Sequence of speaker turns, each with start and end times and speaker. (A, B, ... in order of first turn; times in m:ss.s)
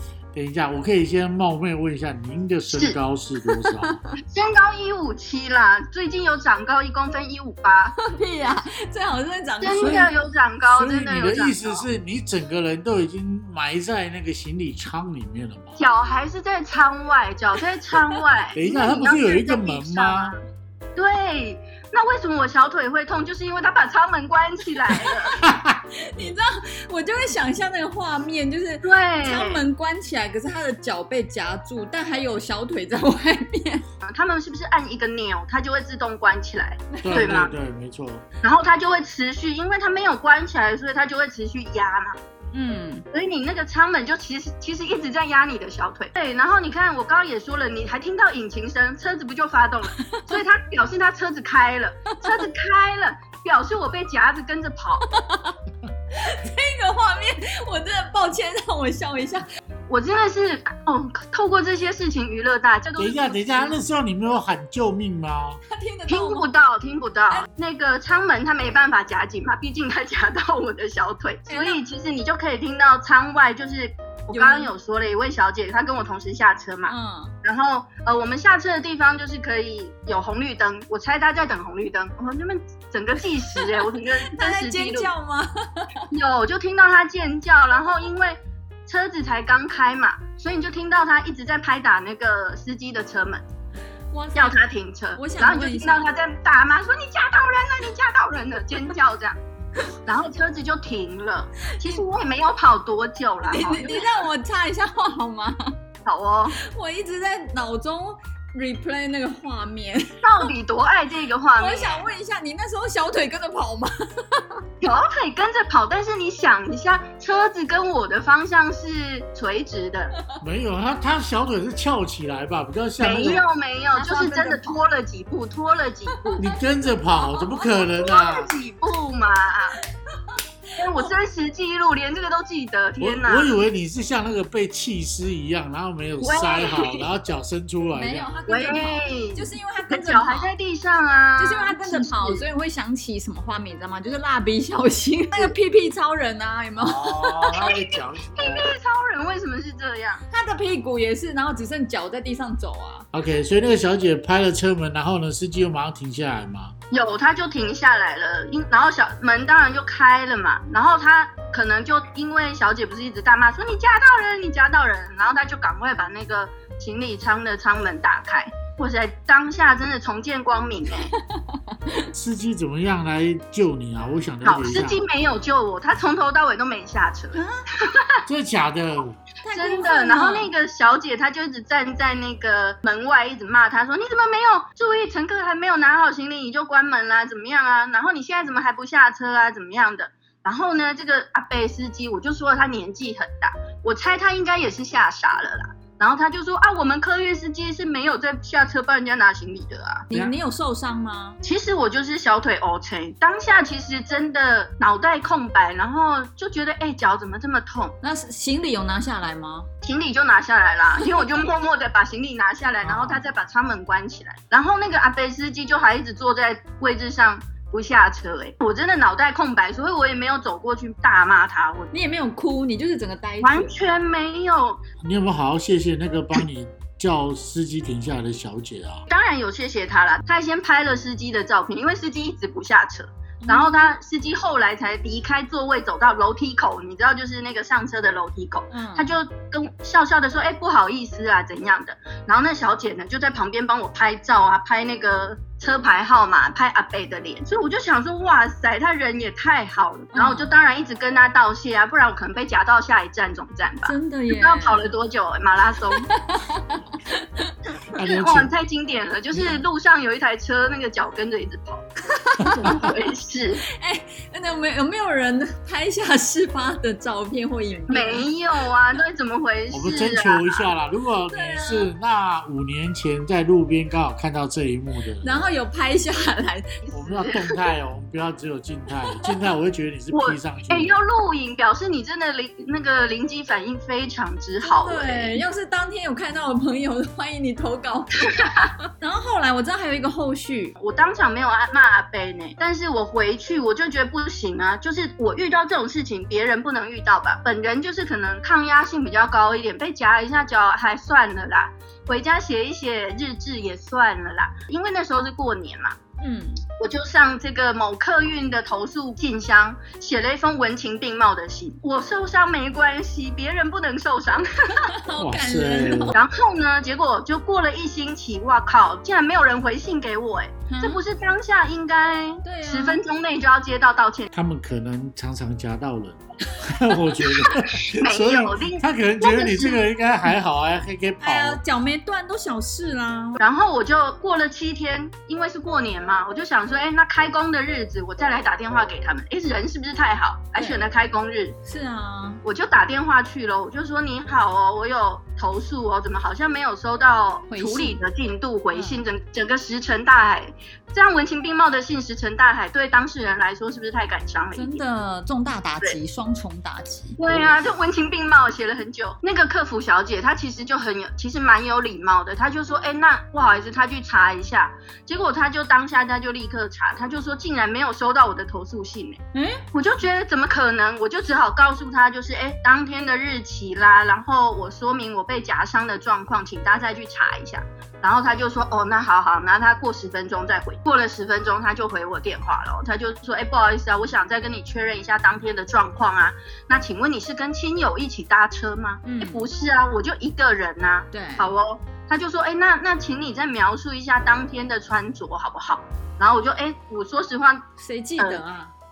0:00.3-0:04.0 A
0:02.7-0:03.0 B
0:03.5-0:04.1 C
0:04.3-0:07.9 B
0:08.0-0:10.1 C
0:09.6-0:11.9 B
0:09.8-0:15.8 A
0:15.8-0:20.4 B
0:18.6-0:20.4 A
0:21.0-0:25.4 B
0:25.5-0:25.8 A
0:26.1-0:33.8 C
0:28.8-0:29.6 B
0:34.0-0:37.6 B
0:37.0-0:37.4 C
0:37.0-0:38.2 A
0:38.4-0:42.2 B
0:42.5-0:43.0 C
0:43.1-0:55.0 B
0:50.0-0:50.4 C
0:55.1-0:55.6 C
0:56.2-0:59.4 C
0:59.9-1:03.8 B
1:03.0-1:05.6 A
1:05.6-1:06.5 C
1:06.1-1:25.1 B
1:11.5-1:11.8 C
1:14.3-1:14.7 C
1:16.9-1:17.3 C
1:23.6-1:25.9 C
1:26.1-1:33.4 B
1:34.1-1:34.6 C
1:34.3-1:39.4 B
1:35.2-1:36.1 C
1:40.0-1:44.0 B
1:43.5-1:45.8 C
1:46.0-1:46.6 B
1:46.5-1:50.5 C
1:50.2-1:52.1 B
1:51.6-1:54.6 C
1:54.8-2:00.1 B
2:00.4-2:03.4 A
2:03.0-2:06.4 B
2:03.9-2:04.8 C
2:06.1-2:06.5 C
2:06.4-2:08.5 A
2:07.2-2:07.6 C
2:07.9-2:09.8 B
2:10.8-2:13.6 B
2:13.0-2:18.3 A
2:16.2-2:17.1 B
2:17.9-2:20.5 C
2:18.5-2:22.4 B
2:21.4-2:27.5 C
2:26.8-2:28.7 A
2:27.5-2:30.2 B
2:30.3-2:33.1 C
2:33.1-2:36.7 A
2:36.9-2:51.1 B
2:51.3-2:52.1 C
2:52.1-2:55.0 A
2:54.4-2:58.2 B
2:57.3-2:57.6 C
2:58.3-2:59.2 A
2:59.4-3:00.5 C
2:59.5-3:20.1 B
3:20.1-3:21.4 C
3:21.4-3:28.0 B
3:28.0-3:29.7 C
3:29.8-3:41.9 B
3:32.8-3:33.2 A
3:41.9-3:43.7 C
3:43.4-3:44.8 B
3:45.0-3:49.0 A
3:49.1-4:16.1 B
3:53.4-3:53.9 C
3:58.7-3:59.1 C
4:10.1-4:10.5 C
4:13.8-4:14.9 C
4:16.0-4:17.5 C
4:17.9-4:18.5 A
4:18.0-4:21.8 B
4:19.3-4:19.6 A
4:22.3-4:22.7 C
4:22.4-4:22.7 A
4:22.6-4:23.6 B
4:23.7-4:28.3 C
4:27.9-4:30.7 B
4:29.7-4:35.4 A
4:31.3-4:31.9 C
4:35.2-4:36.8 C
4:36.9-4:37.6 B
4:36.9-4:41.0 A
4:40.1-4:45.4 B
4:44.6-4:50.7 C
4:50.8-5:06.0 B
5:06.2-5:06.6 C
5:06.8-5:14.9 B
5:15.0-5:16.2 C
5:15.2-5:16.2 A
5:16.1-5:24.3 B
5:20.7-5:21.0 C
5:22.4-5:23.0 C
5:24.3-5:31.6 A
5:27.8-5:29.9 B
5:31.2-5:33.4 C
5:33.4-5:41.6 B
5:40.6-5:40.8 C
5:41.6-5:42.4 C
5:42.4-5:54.8 B
5:47.5-5:48.0 C
5:48.7-5:49.0 C
5:54.5-5:57.2 C
5:57.2-6:09.2 B
6:09.3-6:09.6 C
6:09.7-6:37.7 B
6:29.0-6:29.5 C
6:31.1-6:31.5 C
6:37.8-6:38.7 C
6:38.2-6:38.4 B